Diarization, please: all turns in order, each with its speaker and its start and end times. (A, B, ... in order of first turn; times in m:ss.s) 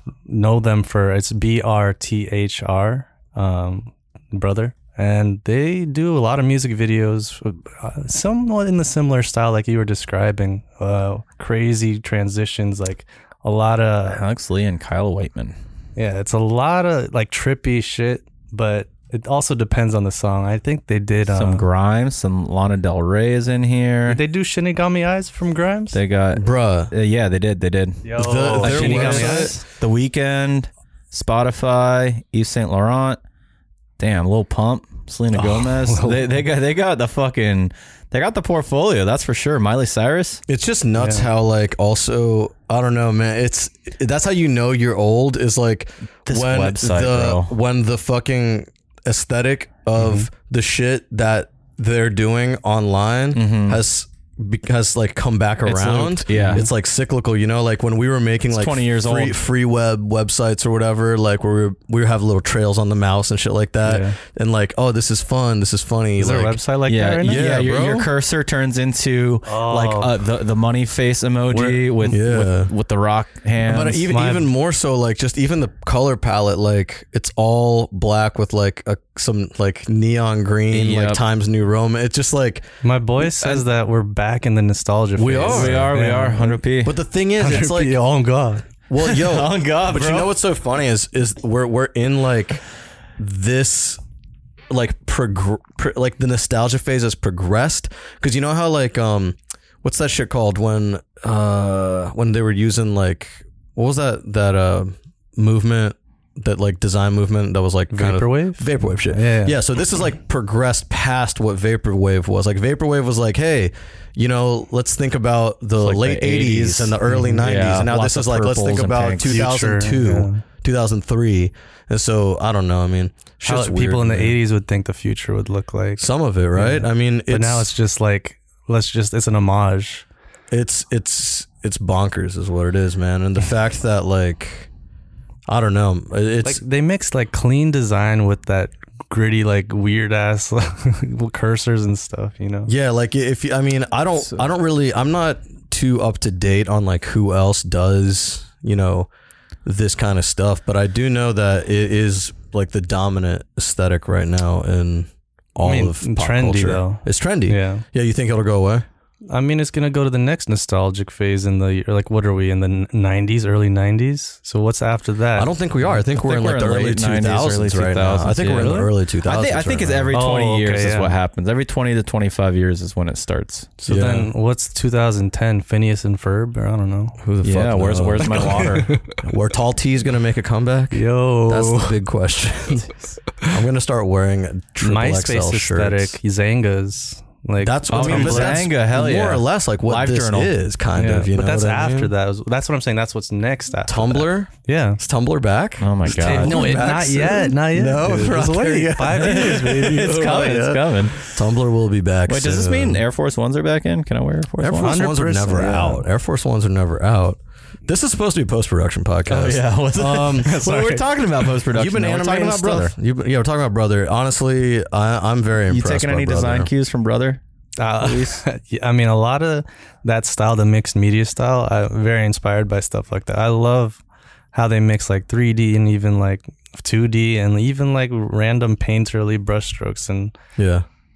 0:00.3-0:14.2 A
0:14.1-0:15.6 B
0:16.0-0:21.6 A
0:21.3-0:24.2 B
0:24.1-0:26.0 A
0:25.9-0:33.2 B
0:26.3-0:26.9 C
0:28.0-0:29.6 A
0:28.2-0:29.5 C
0:34.0-0:40.4 B
0:35.4-0:36.3 A
0:40.5-1:06.6 C
0:41.0-0:41.3 A
0:46.3-0:47.5 B
0:50.0-0:50.3 A
0:53.3-0:53.8 B
0:55.6-0:56.6 B
0:56.3-0:56.7 A
0:58.5-0:59.4 B
1:03.8-1:04.2 A
1:06.2-1:07.4 A
1:06.9-1:14.0 B
1:07.2-1:08.1 C
1:09.4-1:10.1 A
1:11.5-1:12.2 A
1:12.1-1:12.7 C
1:13.6-1:22.7 C
1:14.1-1:14.5 A
1:20.7-1:21.2 B
1:22.8-1:26.6 A
1:23.2-1:23.6 B
1:25.2-1:25.9 C
1:25.4-1:27.0 B
1:26.8-1:28.0 C
1:27.4-1:28.6 A
1:28.9-1:32.6 C
1:29.0-1:30.3 B
1:33.2-1:34.0 C
1:34.7-2:04.4 C
1:47.9-1:49.6 A
1:55.8-1:59.4 B
1:57.1-1:57.4 A
1:59.2-2:00.4 A
2:03.4-2:10.0 A
2:06.0-2:07.7 C
2:10.5-2:14.7 C
2:15.5-2:16.6 C
2:16.4-2:22.7 A
2:22.7-2:29.1 C
2:29.6-2:38.9 C
2:35.6-2:37.8 A
2:39.3-2:46.0 A
2:45.3-2:50.1 C
2:46.2-2:53.7 B
2:48.6-2:48.9 A
2:50.1-2:51.1 A
2:53.8-2:57.2 A
2:53.8-2:54.3 C
2:57.2-3:06.2 C
2:57.4-2:58.9 B
2:58.3-2:59.0 A
3:00.9-3:02.0 A
3:04.8-3:08.6 A
3:07.6-3:12.1 C
3:07.9-3:10.5 B
3:10.9-3:15.0 A
3:13.8-3:23.0 C
3:15.8-3:16.9 B
3:16.1-3:20.1 A
3:19.1-3:21.3 B
3:22.3-3:25.0 B
3:24.6-3:30.6 C
3:24.8-3:26.0 A
3:29.3-3:32.9 B
3:30.4-3:31.0 A
3:31.7-3:36.7 C
3:35.7-3:37.4 B
3:37.8-3:44.0 A
3:38.0-3:38.4 B
3:44.5-3:50.3 A
3:50.6-3:50.8 C